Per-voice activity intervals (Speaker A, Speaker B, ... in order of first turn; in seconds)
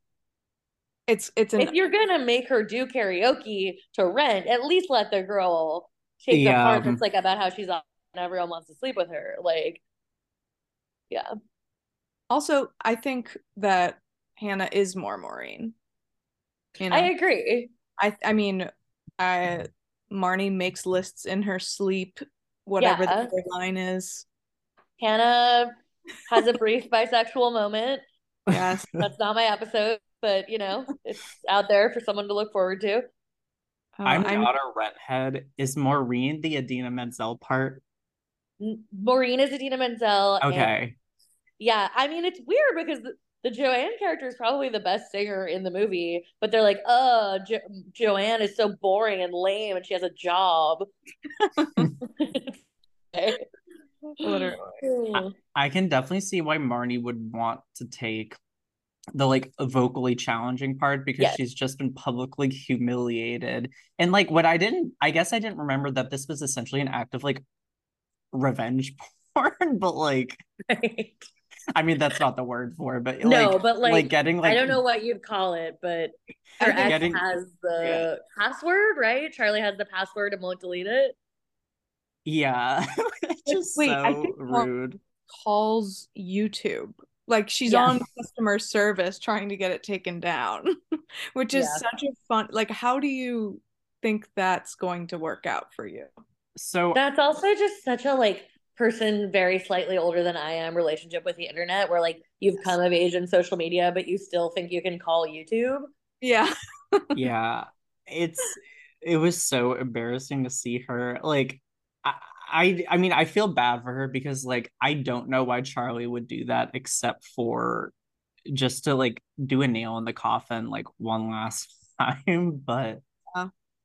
Speaker A: 1.1-1.7, 12.3-15.7, 16.8-17.1, 18.0-24.2, 28.5-28.9, 34.0-34.5, 54.2-54.8, 76.6-77.0, 83.5-84.7, 85.3-90.7, 91.3-96.1, 106.2-107.1
Speaker B: 1.6-9.8, 16.9-17.7, 22.8-23.3, 25.0-25.7, 26.3-28.0, 29.0-33.0, 38.6-40.7, 41.6-50.9, 52.0-52.6, 53.1-53.4, 54.2-55.3, 70.7-71.2, 73.2-81.2, 87.7-88.0, 91.5-91.8, 96.9-105.9
Speaker C: 6.3-7.0, 28.5-29.0, 34.0-37.8, 40.4-41.0, 55.1-58.4, 59.1-67.4, 68.3-70.4, 71.7-74.8, 76.7-77.3, 82.2-85.0, 96.5-97.0, 107.1-117.9, 118.5-123.0